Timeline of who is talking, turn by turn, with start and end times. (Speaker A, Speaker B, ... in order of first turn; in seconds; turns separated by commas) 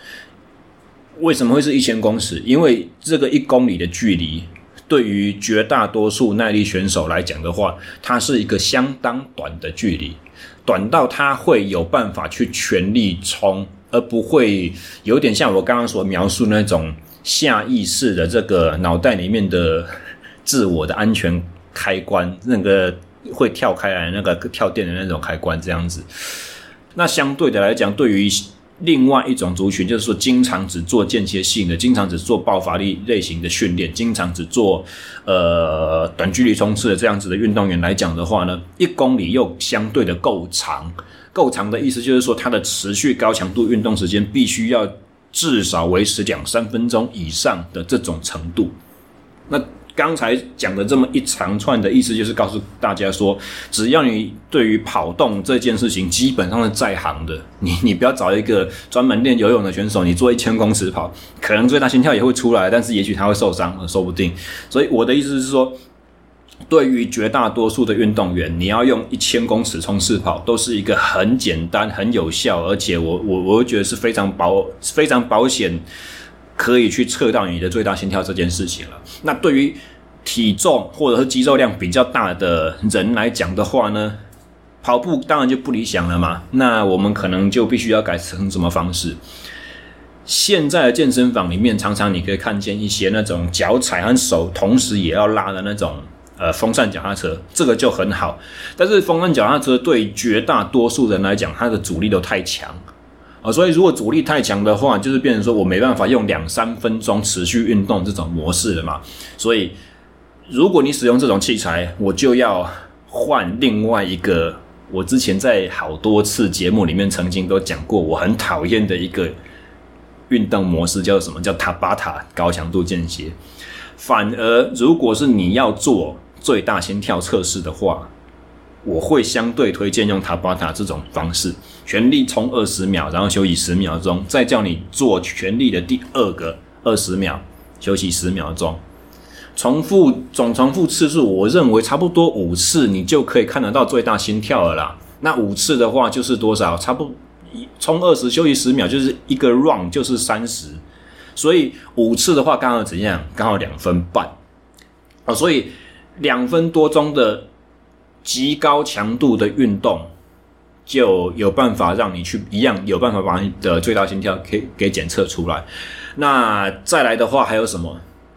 Speaker A: 1.2-19.9, Speaker A: 20.4-26.1, Speaker A: 26.9-48.7, Speaker A: 49.5-65.8, Speaker A: 66.7-75.8, Speaker A: 76.5-84.2, Speaker A: 84.8-89.2, Speaker A: 90.2-102.8, Speaker A: 103.4-109.8, Speaker A: 110.5-119.3, Speaker A: 120.3-123.3, Speaker A: 124.0-128.1, Speaker A: 128.8-138.8, Speaker A: 139.6-150.8, Speaker A: 151.3-154.3, Speaker A: 155.3-157.5, Speaker A: 158.2-160.1, Speaker A: 160.9-168.0